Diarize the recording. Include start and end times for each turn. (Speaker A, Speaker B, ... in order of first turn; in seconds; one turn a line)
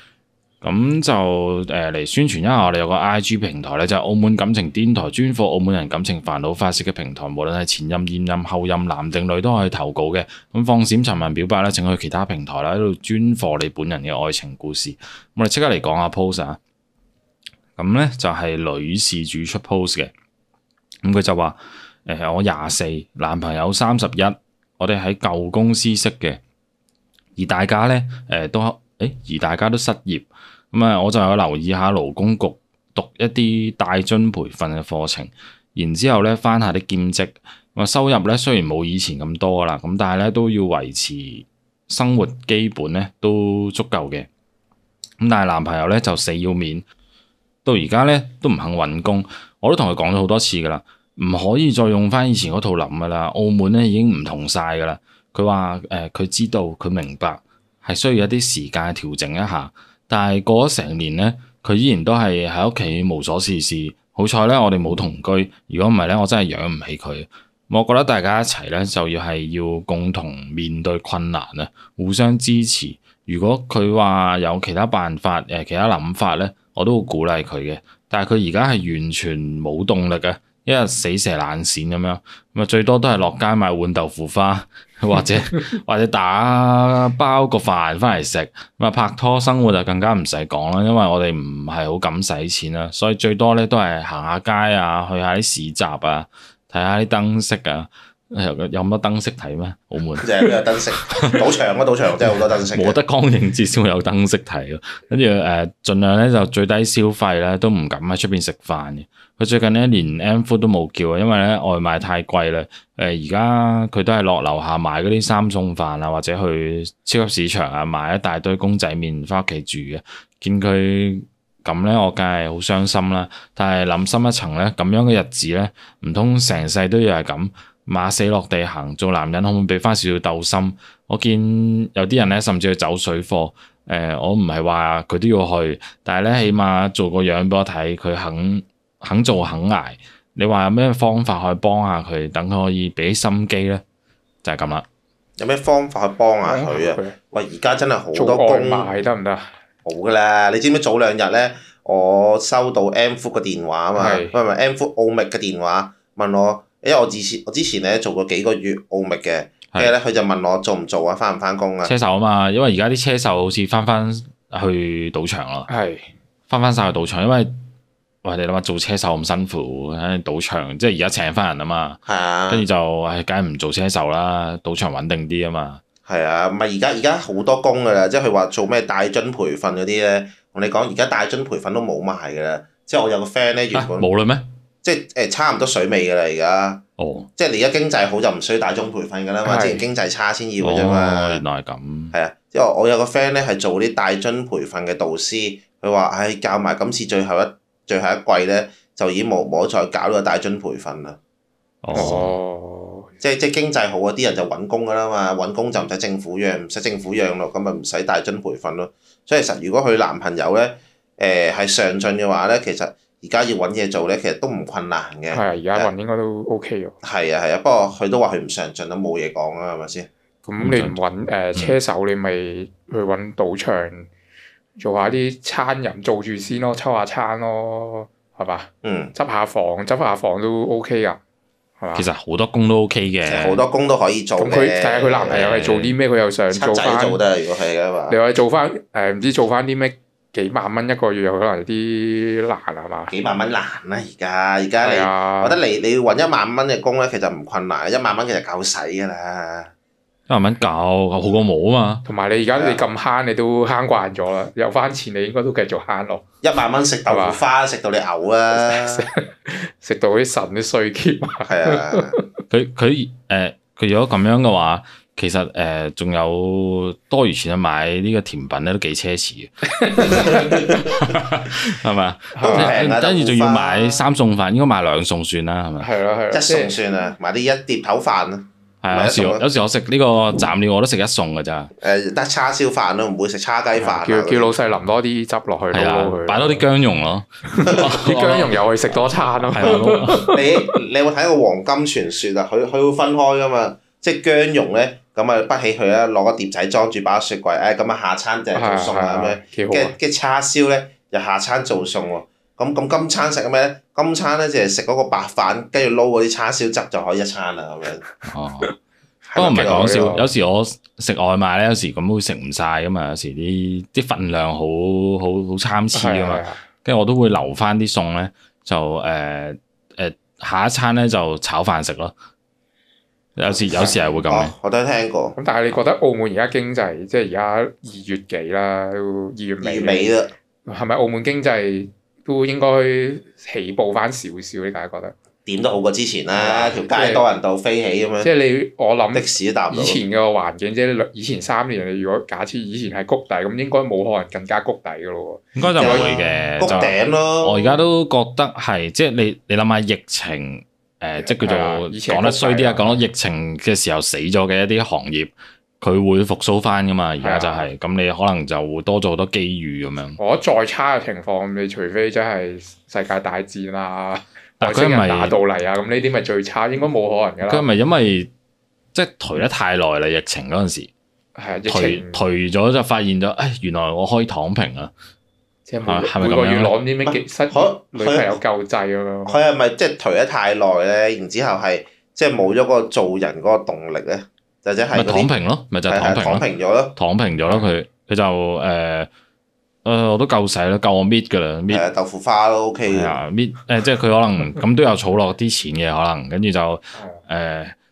Speaker A: 0.6-16.6
Speaker A: 17.8-20.1
Speaker A: 21.0-26.4
Speaker A: 27.4-44.3
Speaker A: 45.2-46.9
Speaker A: 47.6-100.3
Speaker B: 100.2-103.0
Speaker A: 101.1-101.4
Speaker A: 102.7-143.8
Speaker A: 144.4-144.8
Speaker B: 145.4-148.9
Speaker C: 146.4-147.2
Speaker C: 148.1-149.5
Speaker B: 149.8-161.9
Speaker C: 153.9-154.3
Speaker A: 161.8-165.7
Speaker C: 165.7-166.1
Speaker A: 166.5-167.5
Speaker A: 168.2-175.8
Speaker B: 172.1-172.7
Speaker B: 176.1-184.1
Speaker A: 183.7-184.5
Speaker B: 184.8-186.8
Speaker A: 187.0-187.3
Speaker B: 187.4-191.4
Speaker C: 189.4-189.9
Speaker A: 190.6-192.1
Speaker B: 192.1-201.2
Speaker A: 201.8-202.3
Speaker B: 201.9-202.2
Speaker C: 201.9-203.1
Speaker B: 203.2-215.9
Speaker C: 215.3-216.9
Speaker B: 217.0-220.1
Speaker C: 220.5-224.1
Speaker A: 220.6-221.0
Speaker C: 224.8-231.2
Speaker B: 228.8-229.1
Speaker C: 231.8-232.1
Speaker A: 231.9-233.6
Speaker B: 233.3-235.6
Speaker C: 234.4-237.2
Speaker A: 235.3-235.9
Speaker B: 236.5-238.2
Speaker C: 238.1-243.1
Speaker B: 243.1-249.7
Speaker C: 244.8-245.6
Speaker A: 250.3-252.0
Speaker C: 252.1-256.2
Speaker B: 252.5-252.8
Speaker B: 256.4-259.1
Speaker C: 257.1-257.4
Speaker C: 258.6-262.3
Speaker B: 261.4-262.1
Speaker A: 262.5-275.9
Speaker C: 269.7-270.9
Speaker C: 272.4-272.8
Speaker B: 272.4-274.1
Speaker C: 275.8-276.8
Speaker B: 276.3-279.4
Speaker A: 278.8-281.7
Speaker B: 281.8-284.5
Speaker C: 283.8-286.6
Speaker A: 285.7-289.0
Speaker C: 287.5-290.6
Speaker A: 289.5-290.2
Speaker B: 289.6-308.0
Speaker C: 298.5-300.0
Speaker A: 308.2-308.7
Speaker B: 309.3-310.1
Speaker C: 309.3-310.3
Speaker A: 309.4-322.1
Speaker C: 315.9-316.6
Speaker A: 323.4-324.5
Speaker B: 323.5-325.4
Speaker C: 325.4-330.1
Speaker B: 329.6-330.3
Speaker C: 330.7-335.1
Speaker B: 335.5-338.3
Speaker C: 336.3-337.3
Speaker C: 338.2-346.9
Speaker B: 339.1-340.0
Speaker A: 345.6-360.2
Speaker B: 345.8-347.8
Speaker C: 351.2-353.0
Speaker C: 357.2-357.7
Speaker C: 360.2-367.7
Speaker A: 364.6-365.4
Speaker A: 367.4-368.3
Speaker A: 368.9-370.9
Speaker C: 371.4-372.2
Speaker A: 371.7-374.9
Speaker C: 375.7-379.4
Speaker A: 375.9-376.8
Speaker B: 377.1-378.4
Speaker B: 379.3-385.3
Speaker A: 384.9-389.1
Speaker B: 385.9-387.0
Speaker A: 389.9-391.9
Speaker B: 391.7-393.2
Speaker A: 392.9-397.8
Speaker C: 397.0-397.2